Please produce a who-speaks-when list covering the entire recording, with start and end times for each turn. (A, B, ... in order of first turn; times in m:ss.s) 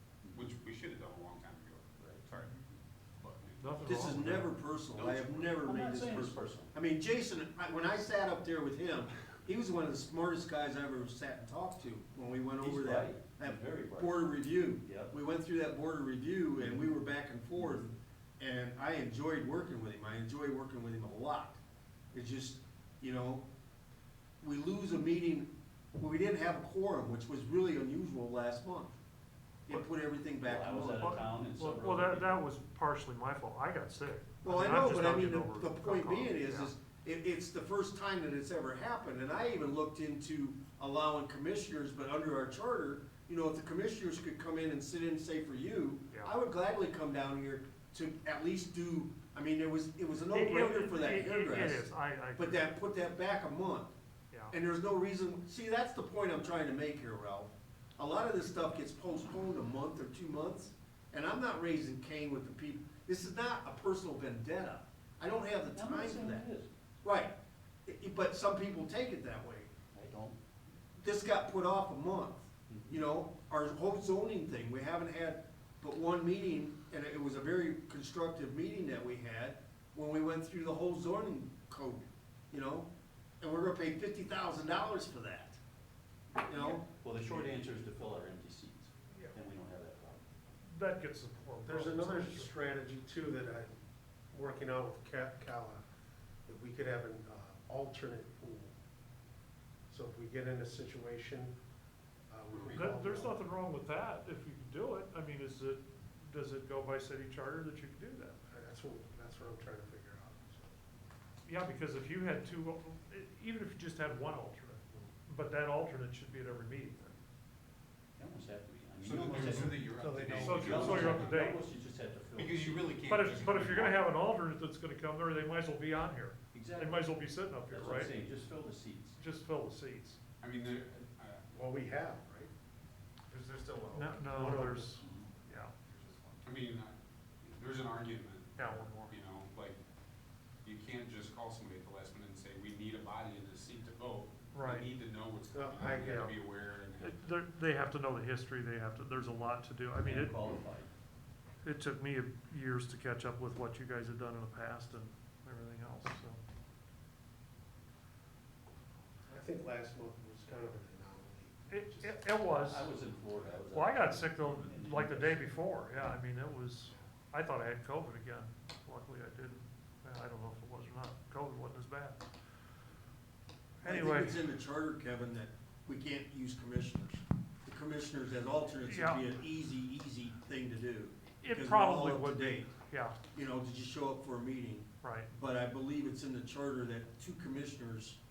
0:00.2-0:00.5 A
0:00.3-0:03.7 B
0:02.0-0:02.3 A
0:03.6-0:04.5 C
0:03.8-0:21.6 D
0:05.0-0:05.5 B
0:05.6-0:06.7 A
0:12.6-0:15.1 A
0:22.1-0:23.4 D
0:24.4-0:29.0 D
0:29.7-0:31.1 D
0:30.4-0:32.4 A
0:31.0-0:36.7 C
0:34.4-0:51.8 D
0:50.3-0:52.7 C
0:52.4-0:53.9 D
0:54.5-1:06.4 D
1:05.8-1:06.7 A
1:07.0-1:07.3 D
1:07.9-1:09.7 D
1:09.9-1:10.4 A
1:11.0-1:22.9 D
1:12.7-1:13.1 A
1:23.4-1:25.6 D
1:26.4-1:26.8 D
1:26.6-1:27.5 C
1:26.8-1:30.3 A
1:30.6-1:32.5 C
1:31.7-1:33.8 E
1:34.3-1:35.8 E
1:36.5-1:38.7 E
1:39.9-1:41.5 E
1:42.3-1:43.4 E
1:42.6-1:48.4 C
1:48.5-1:50.8 E
1:51.4-1:57.2 C
1:58.2-2:00.0 A
1:59.0-2:01.4 B
1:59.3-2:01.3 E
2:00.4-2:01.6 C
2:00.5-2:03.1 A
2:02.4-2:04.1 B
2:03.1-2:08.1 C
2:06.5-2:09.2 A
2:09.2-2:10.2 C
2:10.4-2:11.5 B
2:11.5-2:12.5 E
2:13.3-2:15.2 E
2:13.9-2:15.8 C
2:15.0-2:15.3 A
2:15.9-2:16.4 E
2:16.4-2:19.8 B
2:18.6-2:19.1 C
2:20.6-2:27.3 B
2:24.5-2:24.9 C
2:25.5-2:26.3 E
2:26.0-2:26.3 C
2:27.0-2:30.3 C
2:30.0-2:30.9 A
2:31.6-2:36.4 C
2:39.3-2:42.2 E
2:41.7-2:42.9 C
2:42.6-2:45.6 A
2:43.7-2:52.2 C
2:53.8-2:54.4 C
2:53.8-3:02.7 D
2:58.8-2:59.2 C
3:01.4-3:03.2 C
3:03.3-3:08.2 D
3:05.0-3:05.3 C